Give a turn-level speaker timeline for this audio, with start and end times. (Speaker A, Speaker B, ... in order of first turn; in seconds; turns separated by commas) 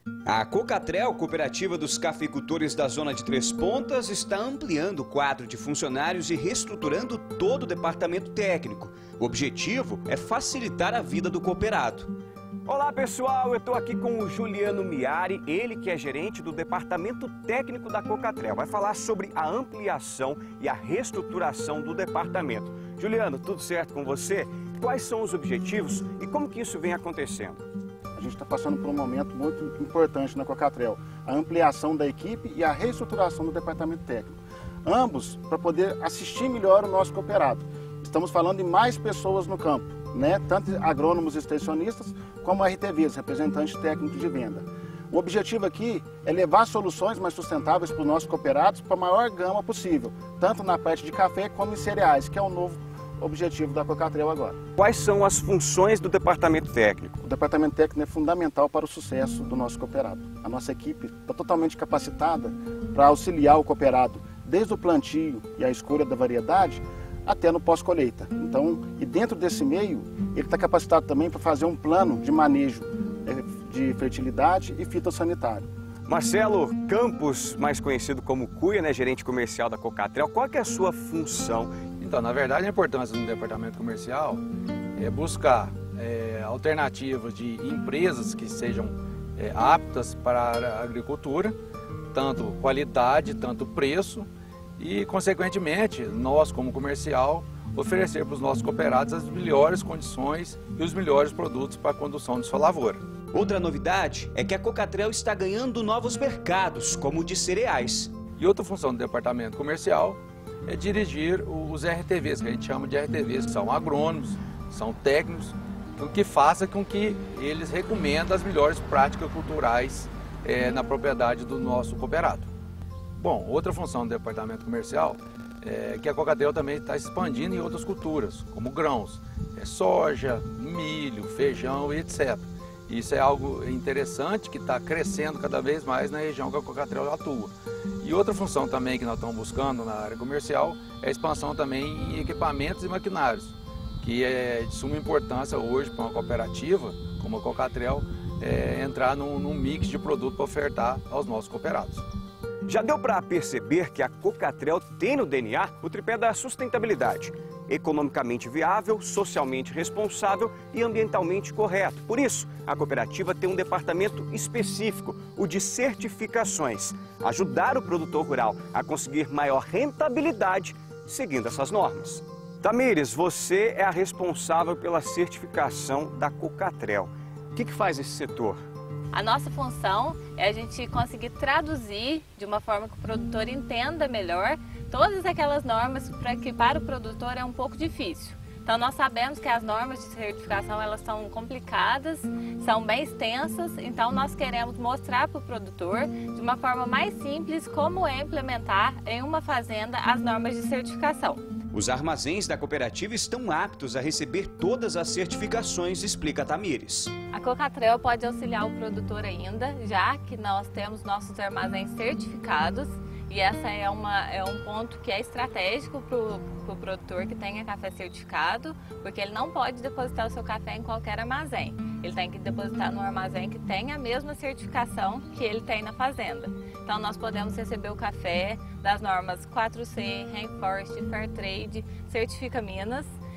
Speaker A: 0.2-12.1, Speaker B: 12.7-27.6, Speaker C: 28.1-54.5, Speaker B: 54.8-57.1, Speaker C: 57.2-75.7, Speaker B: 76.1-81.7, Speaker D: 82.0-84.4, Speaker D: 85.0-91.6, Speaker D: 92.1-103.0, Speaker A: 103.3-108.2, Speaker D: 108.4-122.5, Speaker D: 123.2-152.0, Speaker B: 152.7-178.6, Speaker E: 179.1-201.4, Speaker A: 201.7-207.1, Speaker E: 207.3-233.1